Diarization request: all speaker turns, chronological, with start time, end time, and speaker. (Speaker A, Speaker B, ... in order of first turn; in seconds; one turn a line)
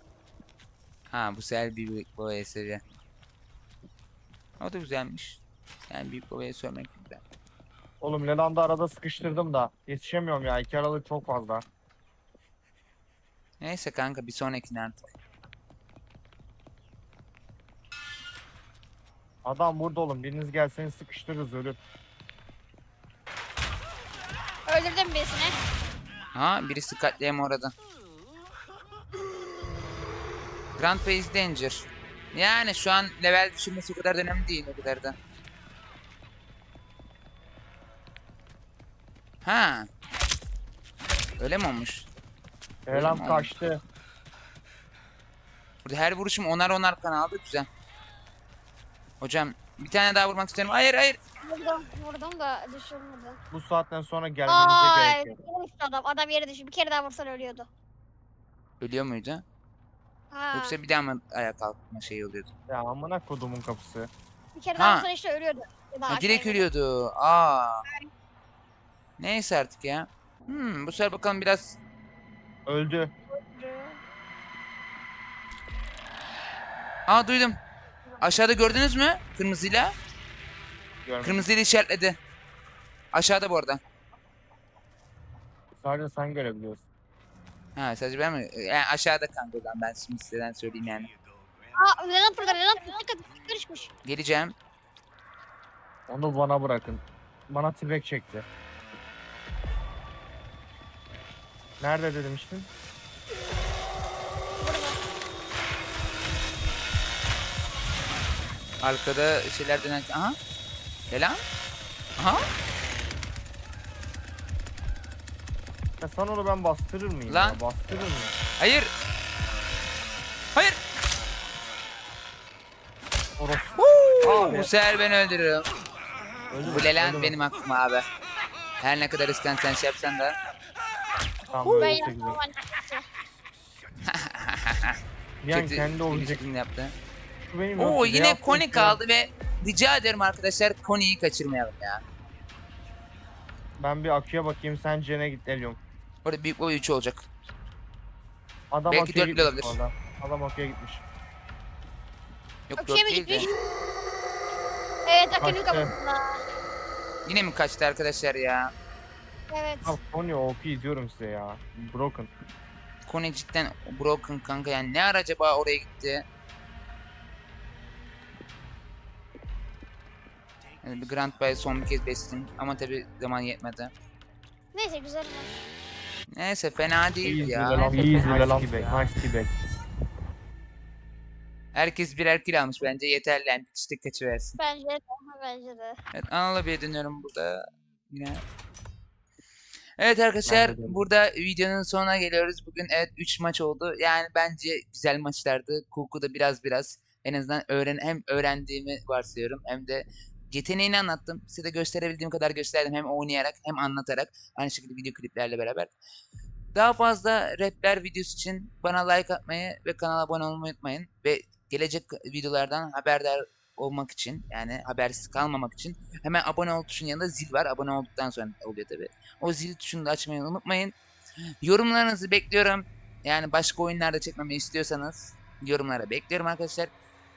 Speaker A: 1.1-2.8
Speaker A: 4.6-7.2
Speaker B: 8.0-11.6
Speaker A: 13.6-15.1
Speaker B: 19.4-21.8
Speaker C: 24.7-25.5
Speaker A: 26.3-27.7
Speaker A: 30.8-35.1
Speaker A: 39.4-39.9
Speaker A: 41.4-42.1
Speaker B: 42.9-43.8
Speaker A: 42.9-43.5
Speaker A: 45.8-47.7
Speaker A: 49.2-51.2
Speaker C: 51.4-53.4
Speaker B: 53.5-55.4
Speaker C: 54.5-57.7
Speaker A: 58.8-59.4
Speaker C: 60.3-60.8
Speaker A: 60.5-62.5
Speaker B: 62.7-64.1
Speaker C: 64.5-66.7
Speaker A: 64.8-65.1
Speaker A: 66.1-67.8
Speaker A: 69.2-71.8
Speaker B: 72.7-73.1
Speaker C: 73.3-74.0
Speaker A: 77.1-77.6
Speaker A: 78.2-79.9
Speaker B: 81.0-81.5
Speaker A: 81.2-82.2
Speaker A: 83.1-83.8
Speaker B: 85.8-86.9
Speaker A: 87.8-91.1
Speaker C: 91.8-93.9
Speaker A: 94.0-94.5
Speaker B: 96.1-98.5
Speaker B: 101.8-102.7
Speaker C: 104.6-105.0
Speaker A: 108.8-110.3
Speaker A: 111.1-111.4
Speaker A: 112.2-112.5
Speaker B: 116.0-118.3
Speaker A: 117.3-117.6
Speaker A: 118.6-118.9
Speaker B: 123.4-124.7
Speaker A: 123.8-125.7
Speaker B: 126.5-127.4
Speaker A: 126.6-128.0
Speaker A: 128.8-130.3
Speaker B: 131.5-132.4
Speaker C: 131.7-133.0
Speaker A: 134.0-135.0
Speaker B: 135.4-136.4
Speaker A: 135.5-136.9
Speaker B: 137.4-139.0
Speaker A: 137.8-142.0
Speaker B: 143.8-145.8
Speaker A: 146.2-147.2
Speaker B: 148.7-151.0
Speaker A: 148.9-149.8
Speaker A: 152.7-153.5
Speaker C: 152.8-153.5
Speaker C: 155.1-156.4
Speaker B: 155.4-155.9
Speaker A: 157.2-158.7
Speaker C: 159.5-160.0
Speaker B: 159.8-162.3
Speaker A: 163.1-166.2
Speaker A: 170.8-173.9
Speaker C: 174.7-175.6
Speaker A: 176.3-179.2
Speaker B: 177.2-179.5
Speaker C: 177.8-178.3
Speaker A: 181.7-184.6
Speaker C: 184.6-186.0
Speaker A: 186.1-188.4
Speaker A: 190.0-205.9
Speaker B: 190.4-191.0
Speaker A: 206.7-220.9
Speaker A: 221.6-226.9